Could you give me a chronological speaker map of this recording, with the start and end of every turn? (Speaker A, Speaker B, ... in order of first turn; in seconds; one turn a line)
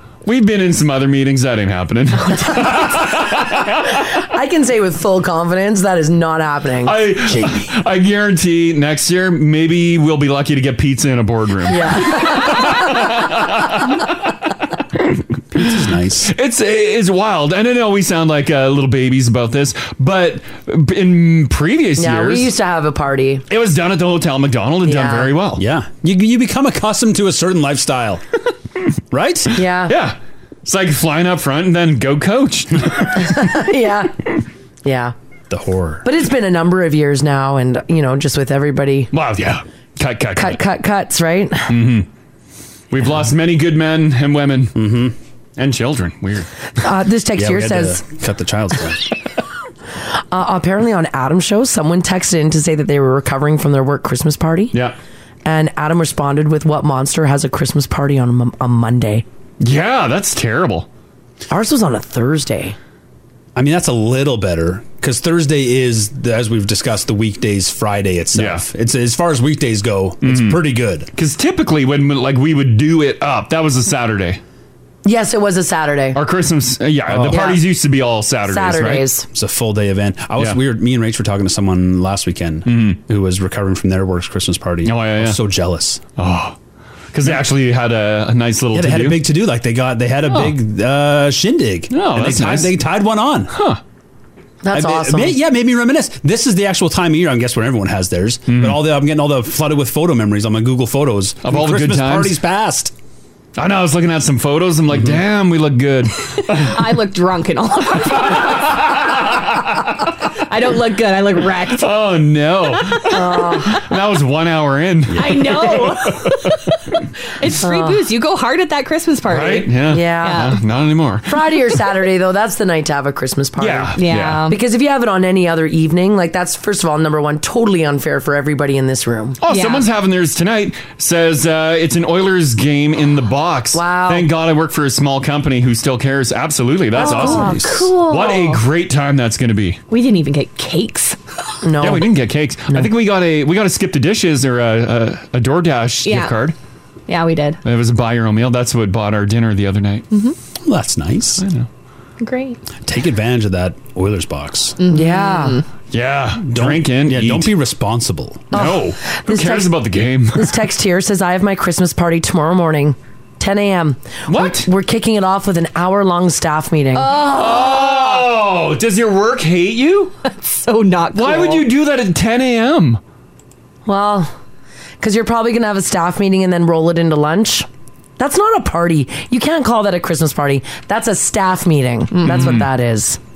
Speaker A: 0.2-3.9
Speaker B: 4.2-7.0
Speaker A: 6.8-14.1
Speaker C: 7.3-7.7
Speaker B: 11.7-12.9
Speaker C: 15.5-16.3
Speaker A: 16.2-22.5
Speaker B: 22.0-23.4
Speaker A: 23.5-25.6
Speaker B: 24.8-25.3
Speaker C: 25.6-28.2
Speaker C: 29.1-29.6
Speaker B: 29.5-29.9
Speaker A: 29.9-33.5
Speaker B: 33.2-34.2
Speaker B: 34.8-35.1
Speaker C: 35.5-36.0
Speaker B: 36.0-39.1
Speaker A: 39.1-40.6
Speaker B: 40.4-41.7
Speaker A: 41.7-42.1
Speaker A: 42.9-44.8
Speaker C: 44.8-45.1
Speaker A: 45.6-46.5
Speaker B: 46.8-48.0
Speaker C: 47.4-49.0
Speaker B: 50.3-54.7
Speaker B: 55.4-59.2
Speaker A: 59.6-60.9
Speaker B: 61.5-62.8
Speaker C: 63.5-71.1
Speaker A: 68.3-68.7
Speaker A: 70.2-70.6
Speaker A: 71.1-74.4
Speaker B: 75.0-76.2
Speaker A: 76.1-79.1
Speaker C: 77.1-77.5
Speaker B: 77.3-77.6
Speaker B: 78.5-79.2
Speaker C: 79.3-86.0
Speaker A: 82.7-83.0
Speaker A: 84.8-85.4
Speaker A: 86.2-86.6
Speaker A: 87.1-89.2
Speaker C: 88.7-93.5
Speaker A: 90.3-90.5
Speaker A: 91.9-92.8
Speaker A: 93.5-93.8
Speaker B: 94.6-95.4
Speaker C: 94.7-102.9
Speaker A: 98.5-98.8
Speaker A: 101.4-102.4
Speaker A: 103.6-106.9
Speaker C: 104.9-105.2
Speaker D: 106.5-109.0
Speaker A: 108.1-109.8
Speaker D: 110.0-111.9
Speaker A: 111.7-116.5
Speaker D: 112.7-113.6
Speaker B: 113.1-113.8
Speaker D: 115.1-116.6
Speaker D: 117.4-120.6
Speaker B: 117.6-118.0
Speaker A: 119.3-121.3
Speaker B: 119.9-120.5
Speaker B: 121.3-124.0
Speaker A: 123.6-124.5
Speaker D: 124.0-124.6
Speaker B: 124.5-129.4
Speaker A: 129.4-139.8
Speaker D: 129.5-129.9
Speaker B: 133.7-134.3
Speaker B: 136.9-138.6
Speaker C: 137.0-137.9
Speaker D: 139.9-141.2
Speaker B: 141.6-142.1
Speaker A: 141.8-146.6
Speaker D: 146.0-146.3
Speaker D: 147.1-147.6
Speaker A: 147.6-150.1
Speaker C: 150.6-151.4
Speaker A: 151.4-151.7
Speaker D: 152.2-152.6
Speaker C: 152.8-154.8
Speaker D: 154.8-155.6
Speaker B: 154.9-155.6
Speaker A: 155.9-157.5
Speaker C: 156.5-158.5
Speaker B: 158.5-159.7
Speaker A: 158.5-160.6
Speaker B: 160.3-167.2
Speaker A: 164.3-164.7
Speaker D: 166.9-168.3
Speaker A: 167.2-170.1
Speaker D: 170.2-171.6
Speaker A: 171.1-173.0
Speaker B: 173.8-174.3
Speaker B: 175.0-177.7
Speaker B: 178.2-183.2
Speaker A: 182.2-182.7